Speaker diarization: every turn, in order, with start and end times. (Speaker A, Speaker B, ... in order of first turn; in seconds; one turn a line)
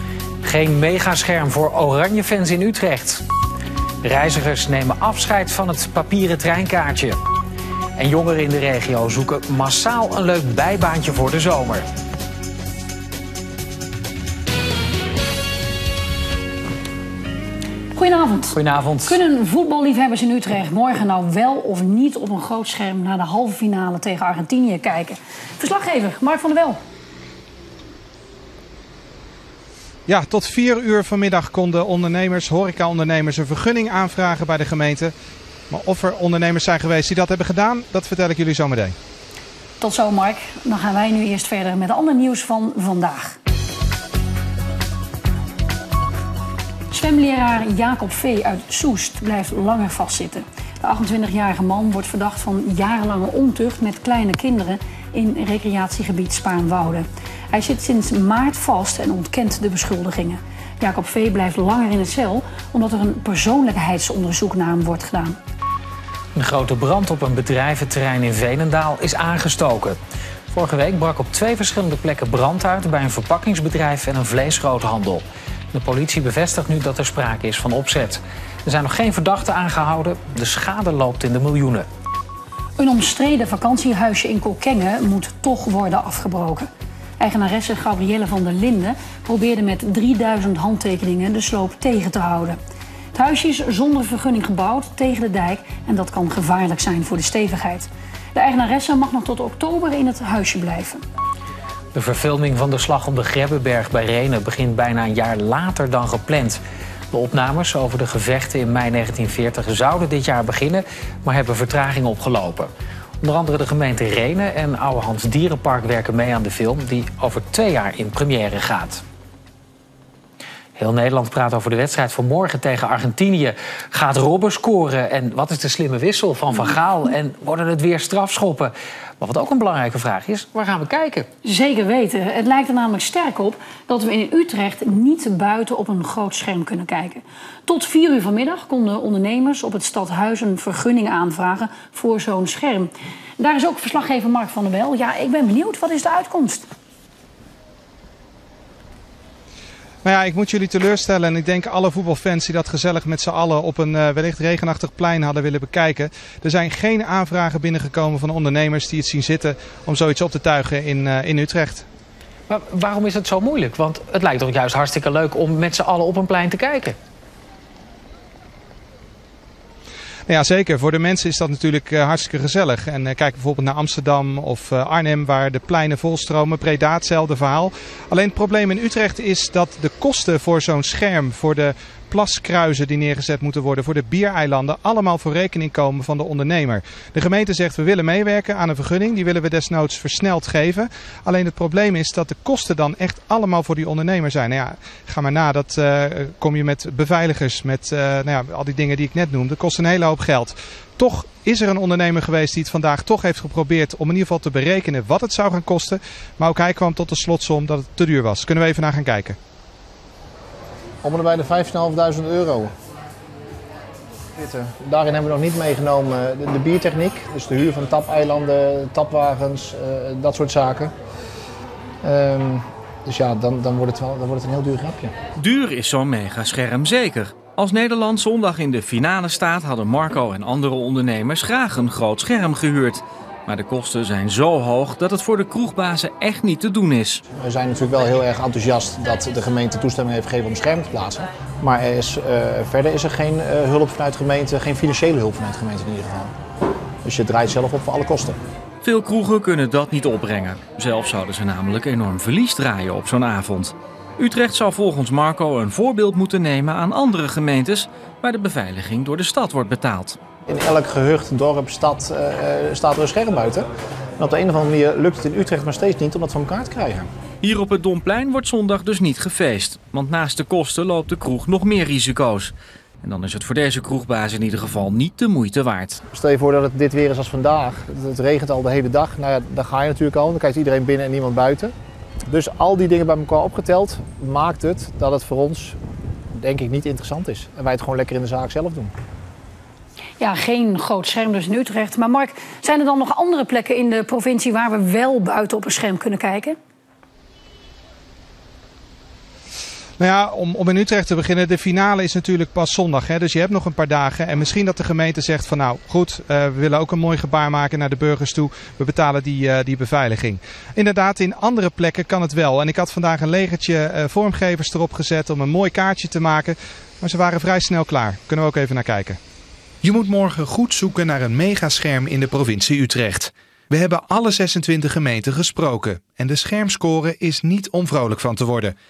Speaker A: 0.4-3.2
Speaker A: 4.0-7.2
Speaker A: 8.0-11.8
Speaker B: 17.9-26.8
Speaker A: 18.5-19.2
Speaker C: 30.1-35.1
Speaker C: 35.7-39.0
Speaker B: 39.8-43.4
Speaker B: 46.9-65.4
Speaker A: 66.4-70.0
Speaker A: 70.5-81.9
Speaker B: 82.8-92.6
Speaker B: 93.1-101.0
Speaker A: 101.9-106.6
Speaker A: 107.1-112.7
Speaker A: 113.2-119.0
Speaker A: 120.8-131.3
Speaker B: 131.4-146.7
Speaker C: 150.0-161.9
Speaker A: 162.5-167.0
Speaker C: 170.3-209.4
Speaker D: 211.0-212.7
Speaker D: 214.4-220.9
Speaker D: 222.0-225.1
Speaker E: 225.4-237.2
Speaker D: 237.4-246.3
Speaker D: 247.0-248.4
Speaker E: 248.8-260.2
Speaker D: 260.5-263.7
Speaker D: 264.2-267.1
Speaker E: 267.4-276.0
Speaker D: 276.1-281.7
Speaker D: 282.3-285.8
Speaker D: 286.3-288.9
Speaker B: 290.2-296.6
Speaker C: 300.0-319.2
Speaker C: 319.8-328.8